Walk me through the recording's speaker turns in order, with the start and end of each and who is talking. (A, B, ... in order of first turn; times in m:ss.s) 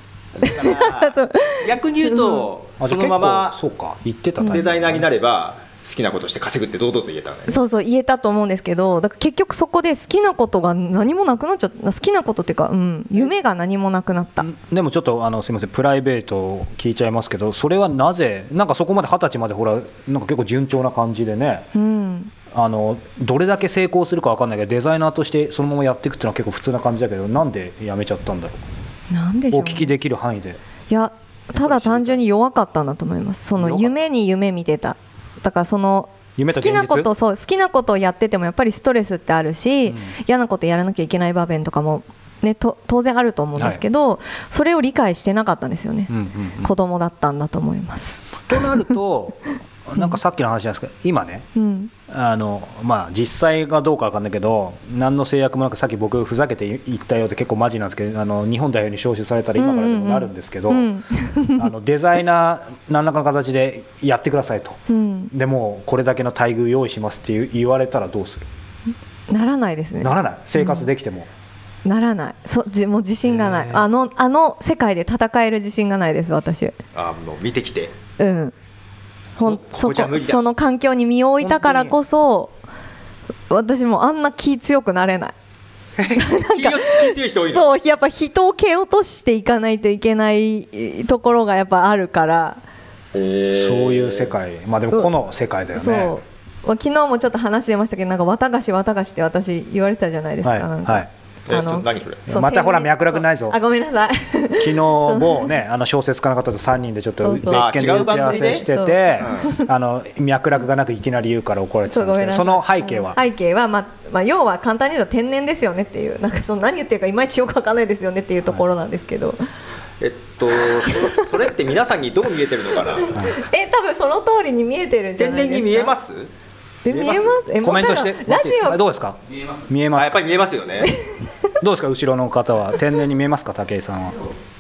0:00.4-0:01.1 A
0:00.4-0:02.4 B
0:00.6-0:01.1 C
0:01.6-0:03.6 C
0:02.8-0:05.1 A
0:04.4-0:07.6 C
0:07.5-0:14.5 B
0:14.4-0:21.7 A
0:21.7-0:22.3 B
0:22.5-0:28.6 A
0:29.1-0:29.9 B
0:29.5-0:30.6 A
0:30.9-0:48.5 B
0:31.5-0:32.2 A
0:33.6-0:34.0 A
0:36.4-0:37.1 A
0:39.9-0:40.1 A
0:43.6-0:43.8 A
0:46.1-0:46.7 A
0:48.5-0:51.5 A
0:51.6-0:51.9 B
0:52.1-1:00.9 A
0:59.6-1:01.7 B
1:01.6-1:04.8 A
1:04.9-1:05.3 B
1:05.3-1:08.5 A
1:09.3-1:10.9 B
1:10.0-1:11.3 A
1:11.8-1:16.7 B
1:13.3-1:13.9 A
1:17.0-1:17.9 C
1:18.2-1:18.5 B
1:19.4-1:22.6 B
1:19.4-1:20.4 C
1:21.4-1:22.0 C
1:23.5-1:25.4 B
1:26.0-1:27.7 C
1:26.1-1:32.6 B
1:33.1-1:34.3 C
1:33.5-1:36.1 A
1:35.7-1:45.6 B
1:40.4-1:41.1 A
1:41.5-1:42.2 C
1:42.3-1:43.6 A
1:44.6-1:53.2 A
1:47.2-1:49.7 B
1:47.5-1:48.7 C
1:49.2-1:49.5 C
1:51.9-1:59.4 B
2:00.0-2:03.1 C
2:03.1-2:03.4 A
2:03.2-2:06.0 B
2:05.2-2:06.3 C
2:06.8-2:08.8 B
2:06.9-2:07.4 C
2:07.6-2:10.2 A
2:10.0-2:11.0 C
2:10.8-2:11.3 B
2:11.6-2:14.2 A